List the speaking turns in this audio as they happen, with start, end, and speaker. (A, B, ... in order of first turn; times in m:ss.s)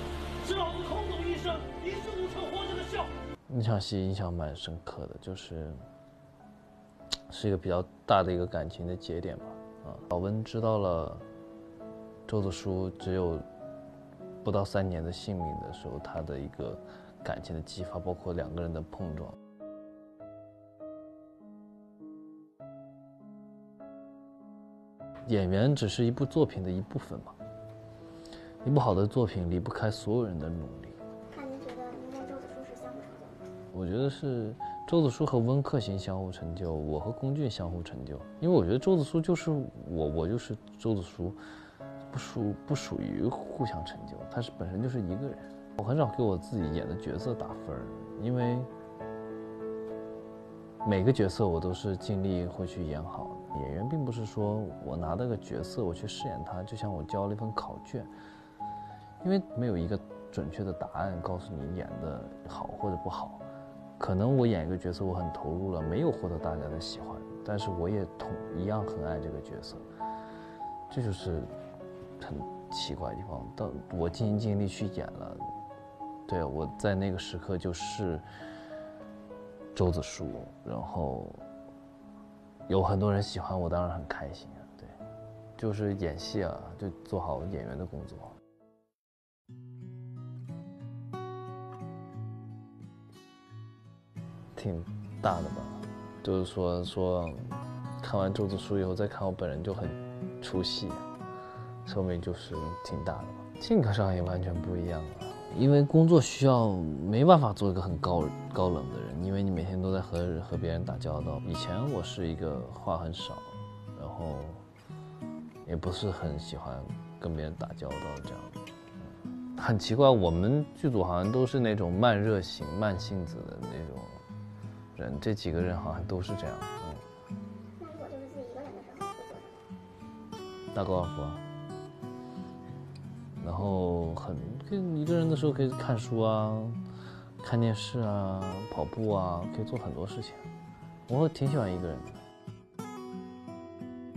0:00.4-0:03.1 A
0:03.5-0:05.8 B
0:07.3-0:11.2 B
0:12.3-0:13.4 B
0:14.4-0:19.4 B
0:25.2-0:27.3 B
0:28.6-0:31.0 B
0:31.3-0:33.5 C
0:33.7-0:41.4 B
0:42.1-0:48.7 B
0:50.8-0:58.1 B
0:59.2-1:03.4 B
1:04.0-1:09.8 B
1:10.9-1:11.5 B
1:12.2-1:15.4 B
1:16.3-1:18.2 B
1:19.7-1:21.4 B
1:22.7-1:24.9 B
1:25.6-1:28.3 B
1:34.5-1:37.4 B
1:38.0-1:41.0 B
1:41.8-1:54.6 B
1:55.6-1:58.6 B
1:59.6-2:04.2 B
2:05.0-2:07.0 B
2:07.8-2:09.6 C
2:10.7-2:11.4 B
2:13.4-2:16.8 B
2:17.4-2:20.4 B
2:21.1-2:22.2 B